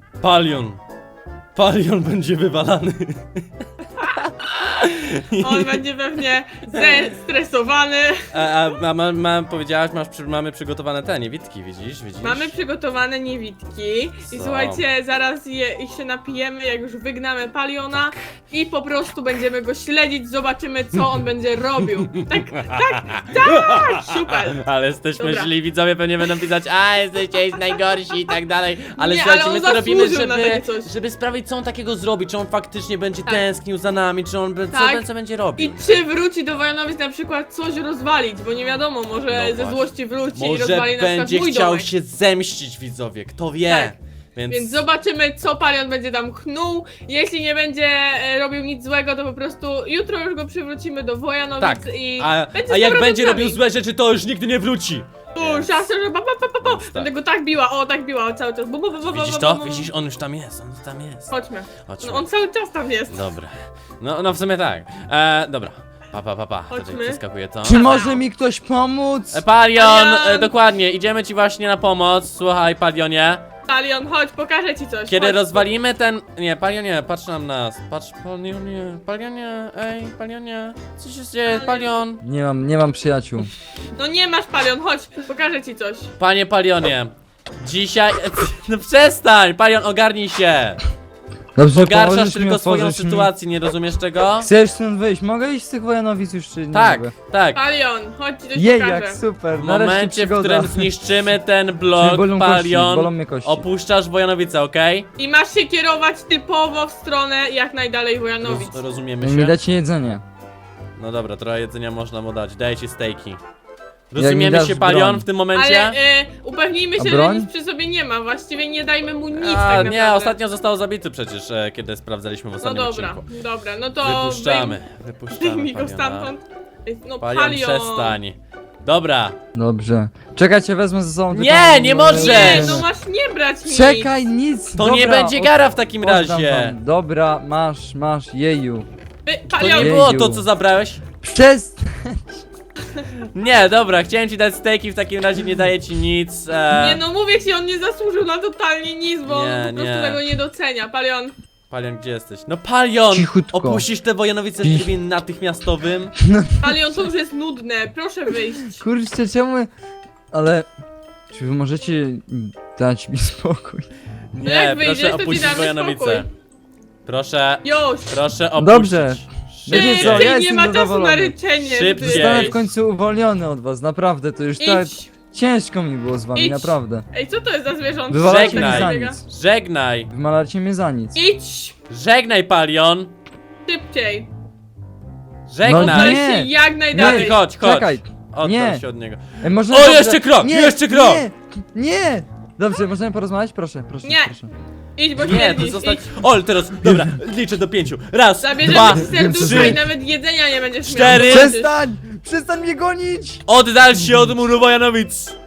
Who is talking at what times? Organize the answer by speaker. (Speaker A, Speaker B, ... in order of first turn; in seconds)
Speaker A: 0.2-0.8, 1.5-3.3, 4.0-5.8, 6.7-7.0, 8.3-12.5, 14.3-14.8, 22.0-36.0, 39.3-44.8, 51.6-55.9, 56.6-57.1, 59.1-61.3, 61.9-62.2, 63.1-68.0, 69.3-73.5, 75.1-82.2, 86.2-90.8, 91.7-94.5, 96.7-97.6, 99.5-105.1, 108.4-109.6, 111.0-113.4, 114.1-116.0, 119.3-123.3, 124.0-126.3, 127.2-129.3, 131.3-132.8, 134.8-136.8, 139.6-141.0, 143.3-147.0, 149.2-150.2, 151.7-156.2, 164.3-166.3, 167.1-170.3, 171.7-172.7, 178.2-180.1, 181.9-183.1, 185.5-186.3, 186.9-191.2, 195.2-199.8, 200.8-201.5, 203.5-205.3
Speaker B: 5.4-8.2, 12.2-24.6, 25.2-25.5, 29.0-30.9, 34.7-35.0, 35.6-41.9, 43.7-44.0, 44.5-53.6, 55.3-59.9, 61.3-63.3, 66.7-68.2, 69.8-70.5, 73.7-75.7, 81.5-82.0, 84.0-86.1, 97.5-99.2, 105.2-108.8, 115.5-120.4, 122.6-124.8, 125.3-128.2, 132.1-134.1, 139.2-140.1, 146.7-151.3, 156.6-158.8, 164.4-166.3, 167.6-168.1, 169.7-172.6, 174.6-175.1, 176.3-179.2, 181.1-181.8, 183.7-184.3, 185.7-187.4, 194.0-194.4, 195.0-196.2, 198.4-201.7
Speaker C: 67.6-69.4, 82.2-83.5, 91.5-93.3, 94.4-97.1, 98.5-100.9, 102.0-103.6, 109.2-110.2, 114.2-115.3, 117.0-117.5, 129.6-132.9, 133.6-138.9, 139.6-140.5, 141.2-142.4, 153.1-153.8, 154.6-154.9, 156.2-156.8, 158.7-159.7, 160.3-160.7, 161.3-163.9, 168.6-171.4, 172.0-177.1, 178.1-179.2, 180.1-181.2, 185.6-188.8, 189.4-194.5, 198.7-199.9, 201.0-203.4